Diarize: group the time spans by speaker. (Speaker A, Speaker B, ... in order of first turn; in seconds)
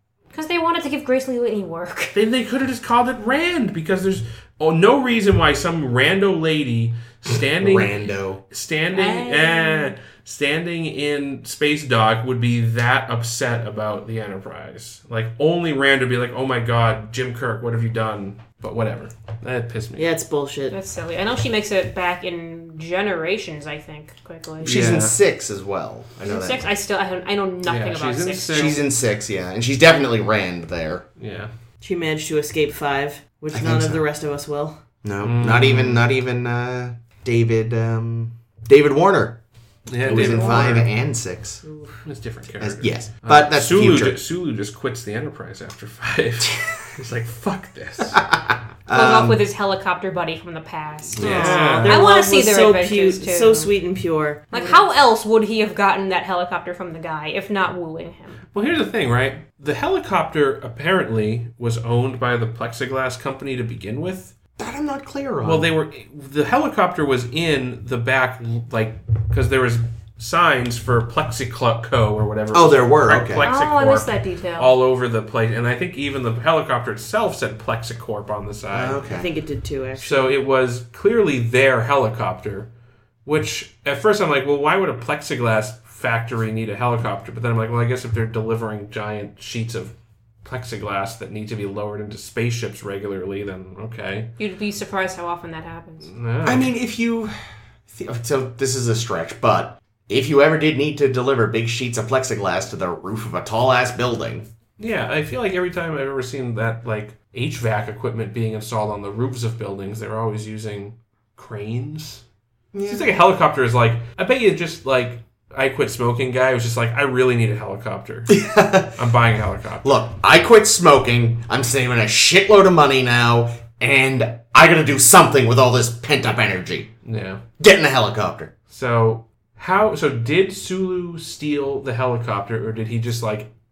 Speaker A: 0.3-2.1, 8.9-9.9, 20.7-24.9, 26.2-28.8, 48.9-53.7, 54.5-58.4, 73.4-74.8, 94.4-96.1
Speaker B: 2.1-20.1, 24.6-25.2, 27.6-28.8, 31.2-31.5, 35.2-36.1, 39.9-40.9, 42.0-48.2, 51.2-52.0, 58.5-64.3, 65.4-79.2, 80.0-82.7, 83.2-94.3, 96.0-96.7, 104.8-112.2, 112.9-120.0, 127.0-127.4, 128.7-133.5
Speaker C: 7.6-8.4, 24.6-26.6, 28.5-31.0, 33.5-34.0, 35.0-39.4, 40.0-41.6, 42.6-44.2, 48.1-49.4, 51.1-51.5, 64.6-65.7, 72.5-73.5, 78.7-79.3, 96.4-97.3, 97.9-104.5, 112.7-113.1, 118.3-119.0, 119.8-126.9, 127.6-128.5
Speaker D: 19.9-20.8, 31.8-34.8, 40.1-40.7, 41.6-42.0, 51.1-54.8, 79.1-80.3